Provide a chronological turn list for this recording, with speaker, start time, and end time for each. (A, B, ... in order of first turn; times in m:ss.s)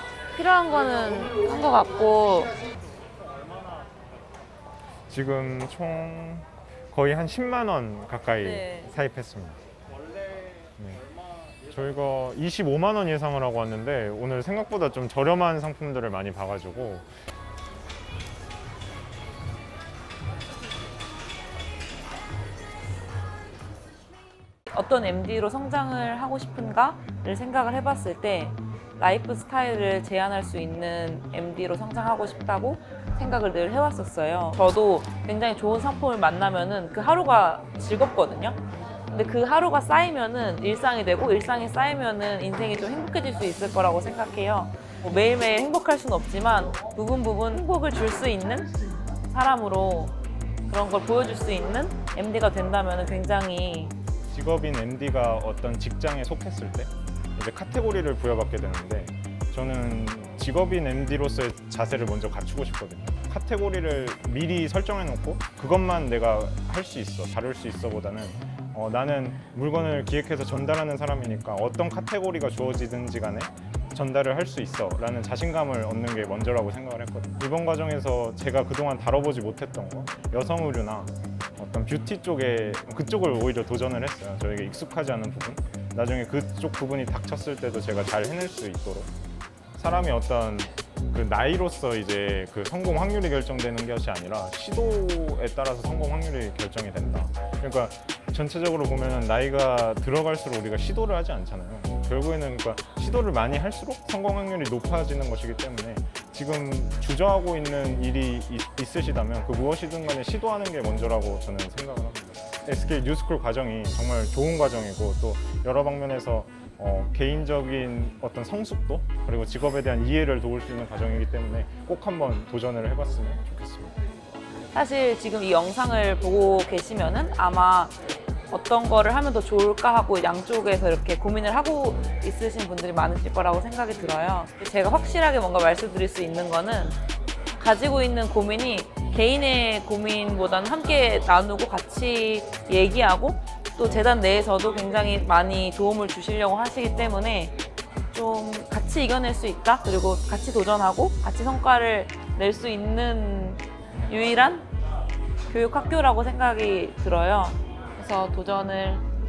0:00.4-0:02.5 A
0:05.1-0:09.6 B
0:08.4-0:08.9 A
0:10.8-0:11.0 B
0:11.7-0:17.2 B
0:24.7-0:48.7 A
0:49.3-0:54.0 A
0:54.3-1:29.1 B
1:29.7-2:04.0 B
2:04.7-2:08.0 A
2:08.5-2:17.0 A
2:17.6-2:34.7 A
2:35.5-2:39.1 A